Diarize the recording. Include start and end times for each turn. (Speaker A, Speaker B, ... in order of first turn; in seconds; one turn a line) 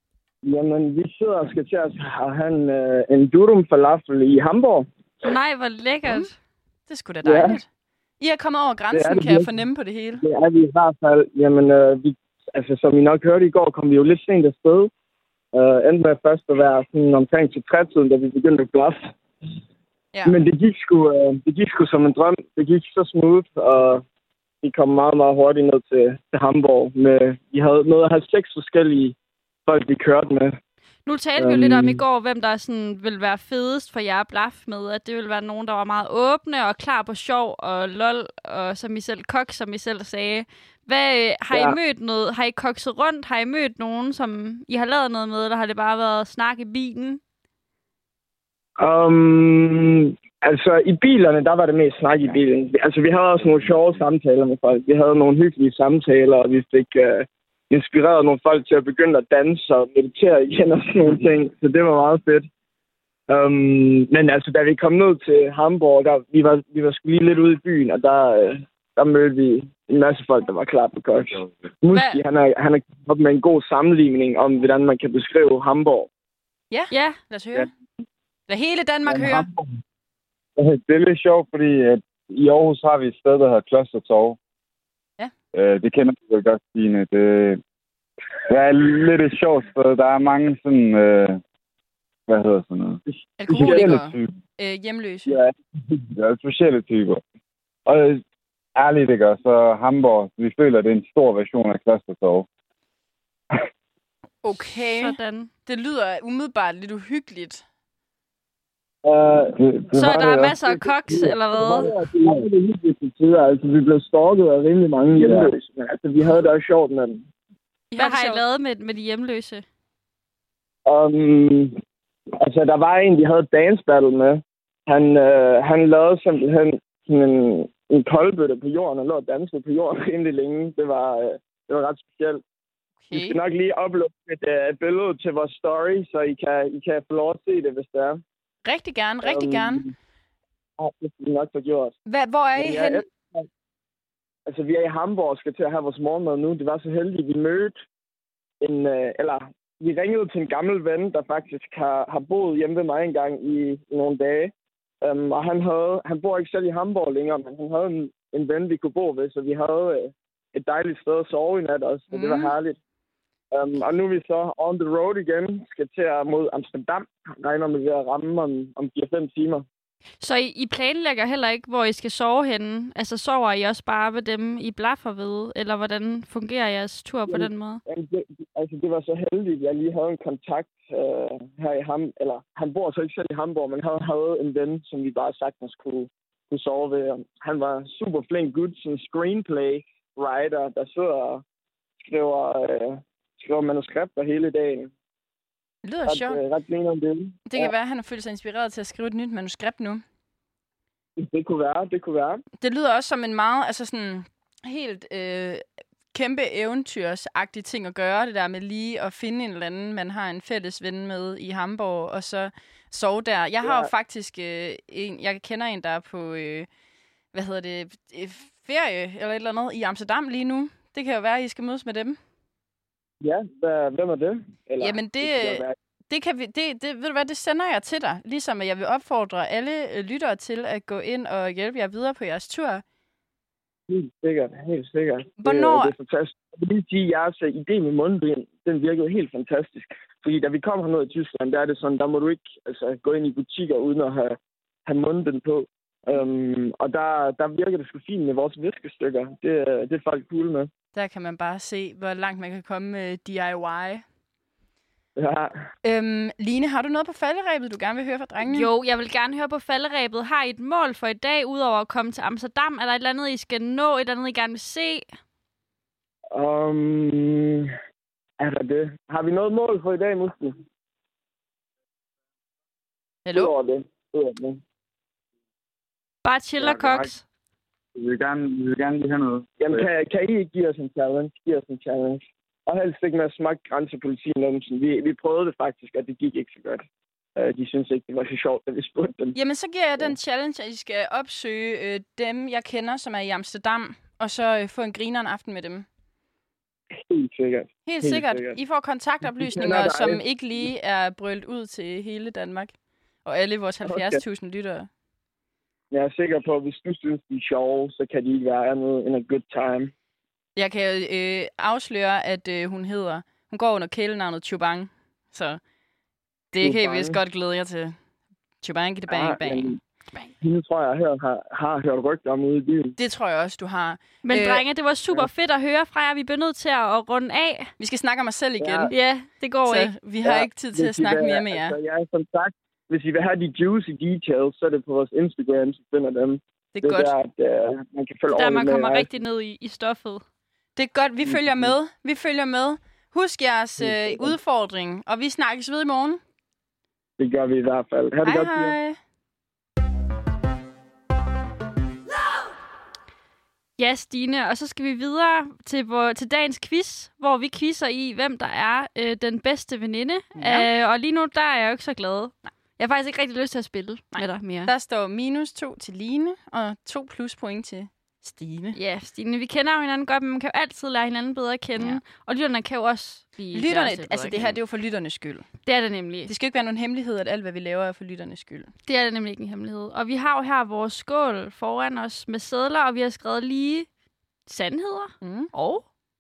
Speaker A: 0.4-4.9
Speaker B: 5.2-6.3
Speaker C: 6.9-7.7
Speaker A: 7.2-7.6
Speaker C: 8.2-10.2
Speaker A: 8.9-9.5
Speaker A: 10.2-14.9
Speaker A: 15.5-19.1
Speaker A: 20.2-24.0
Speaker A: 24.6-30.6
Speaker B: 31.1-47.2
Speaker A: 31.4-32.0
Speaker A: 41.5-41.8
Speaker A: 48.8-62.5
Speaker A: 63.3-76.1
Speaker C: 76.7-77.7
Speaker B: 76.9-77.2
Speaker C: 78.5-79.5
Speaker D: 79.1-79.4
Speaker D: 80.6-84.4
Speaker D: 85.5-87.6
Speaker D: 88.5-91.4
Speaker D: 92.3-94.3
Speaker C: 93.4-95.4
Speaker A: 93.5-93.9
Speaker D: 96.1-97.2
Speaker D: 97.9-98.2
Speaker D: 98.8-102.5
Speaker C: 104.4-107.6
Speaker B: 104.6-105.5
Speaker A: 109.0-109.6
Speaker D: 109.6-110.6
Speaker B: 109.9-111.9
Speaker A: 111.1-117.2
Speaker D: 111.8-112.5
Speaker D: 115.1-115.5
Speaker C: 117.9-118.4
Speaker B: 118.0-119.6
Speaker A: 120.8-121.8
Speaker A: 122.4-132.4
Speaker C: 133.0-133.4
Speaker A: 133.1-138.2
Speaker C: 138.6-139.8
Speaker A: 139.2-139.9
Speaker A: 140.8-141.9
Speaker C: 142.1-143.0
Speaker A: 142.6-143.5
Speaker A: 144.4-147.8
Speaker A: 148.6-162.8
Speaker C: 162.1-162.4
Speaker A: 163.5-169.7
Speaker B: 170.2-177.8
Speaker A: 177.3-191.4
Speaker A: 192.0-194.9
Speaker C: 195.8-196.4
Speaker A: 196.1-197.7
Speaker C: 197.5-200.0
Speaker A: 201.2-202.4
Speaker C: 202.6-216.7
Speaker A: 213.6-213.9
Speaker C: 217.3-222.2
Speaker A: 223.2-225.7
Speaker C: 224.8-232.8
Speaker A: 233.9-250.7
Speaker C: 235.4-235.9
Speaker C: 250.9-254.0
Speaker A: 255.2-255.6
Speaker C: 255.8-258.7
Speaker B: 258.4-265.1
Speaker A: 266.3-267.7
Speaker A: 268.4-270.6
Speaker C: 273.2-273.5
Speaker A: 273.3-274.6
Speaker B: 276.2-277.2
Speaker D: 276.6-277.1
Speaker D: 277.9-279.9
Speaker A: 279.6-286.8
Speaker A: 287.4-289.4
Speaker C: 289.3-295.9
Speaker A: 296.9-298.6
Speaker C: 297.9-302.7
Speaker A: 299.4-300.2
Speaker C: 303.2-304.9
Speaker A: 303.9-304.2
Speaker A: 305.9-309.9
Speaker C: 310.6-315.6
Speaker C: 316.5-317.9
Speaker A: 316.6-317.2
Speaker C: 318.6-319.7
Speaker A: 319.1-319.8
Speaker A: 320.4-322.9
Speaker C: 323.0-324.6
Speaker B: 324.2-327.7
Speaker C: 327.8-328.9
Speaker A: 328.6-328.9
Speaker B: 328.9-329.9
Speaker C: 329.6-331.8
Speaker A: 330.2-339.1
Speaker C: 336.7-337.1
Speaker B: 338.3-340.2
Speaker C: 340.8-346.2
Speaker A: 341.2-341.7
Speaker A: 343.8-344.3
Speaker A: 347.2-348.8
Speaker C: 348.2-349.0
Speaker B: 353.8-364.7
Speaker C: 360.4-360.7
Speaker C: 364.1-368.8
Speaker B: 368.7-374.6
Speaker C: 373.5-375.5
Speaker B: 375.6-376.3
Speaker C: 376.3-378.7
Speaker B: 378.9-383.9
Speaker B: 384.5-385.8
Speaker C: 385.2-385.5